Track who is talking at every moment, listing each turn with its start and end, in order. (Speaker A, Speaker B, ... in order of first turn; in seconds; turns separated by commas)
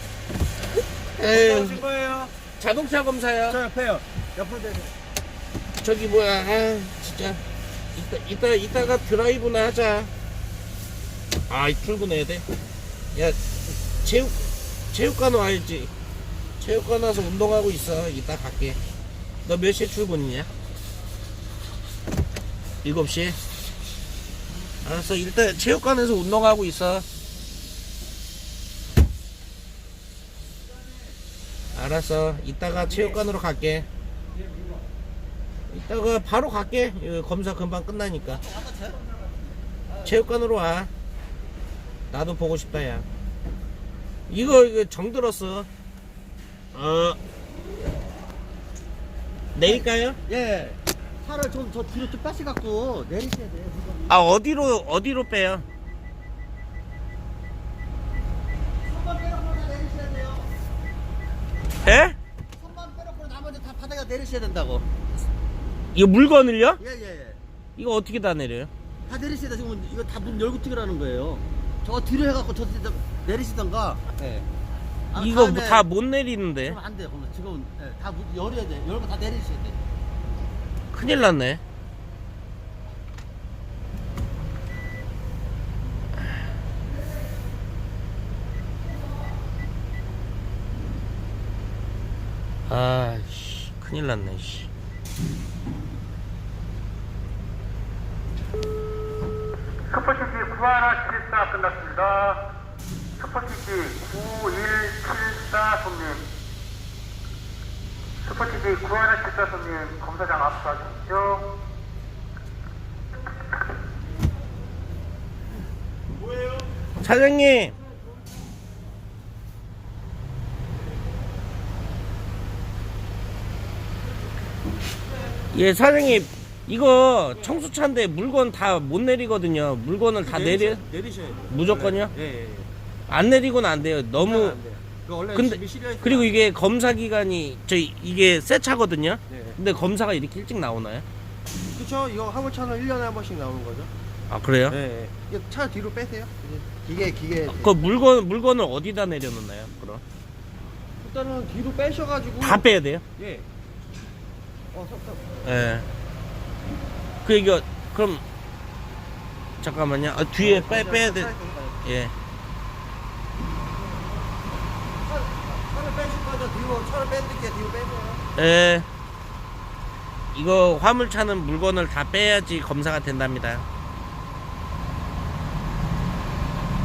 Speaker A: 1.1-1.8, Speaker B: 1.3-2.3, Speaker A: 2.6-3.6, Speaker B: 3.5-5.0, Speaker A: 5.8-7.4, Speaker A: 8.0-10.1, Speaker A: 11.5-12.5, Speaker A: 13.1-13.4, Speaker A: 14.0-15.9, Speaker A: 16.6-18.8, Speaker A: 19.4-20.5, Speaker A: 22.8-23.4, Speaker A: 24.8-27.1, Speaker A: 31.8-33.9, Speaker A: 35.7-38.4, Speaker B: 38.4-39.0, Speaker A: 40.0-40.9, Speaker A: 42.1-43.1, Speaker A: 44.3-45.7, Speaker A: 46.7-47.2, Speaker A: 49.5-50.2, Speaker B: 49.6-54.1, Speaker A: 54.1-55.7, Speaker B: 58.8-60.5, Speaker A: 61.8-62.2, Speaker B: 62.6-64.9, Speaker A: 65.9-66.8, Speaker B: 66.8-67.4, Speaker A: 67.8-68.7, Speaker B: 69.1-74.5, Speaker B: 75.1-75.8, Speaker A: 75.2-76.8, Speaker B: 76.6-79.8, Speaker A: 80.9-81.6, Speaker A: 92.7-94.7, Speaker C: 99.9-102.5, Speaker C: 103.2-106.3, Speaker C: 108.2-111.5, Speaker A: 117.0-117.8, Speaker A: 125.5-130.8, Speaker B: 130.2-132.7, Speaker A: 131.5-132.1, Speaker A: 133.1-134.6, Speaker B: 134.2-136.3, Speaker A: 135.3-141.1, Speaker B: 139.3-139.6, Speaker B: 141.7-143.9, Speaker A: 144.3-144.8, Speaker B: 144.7-147.7, Speaker A: 147.5-150.0, Speaker B: 151.0-153.5, Speaker A: 152.4-153.1, Speaker B: 154.7-155.3, Speaker A: 155.4-155.9, Speaker A: 157.2-158.2, Speaker A: 159.6-161.3, Speaker B: 160.4-161.9, Speaker A: 161.8-162.1, Speaker B: 165.0-168.2, Speaker A: 168.3-168.9, Speaker A: 170.3-173.7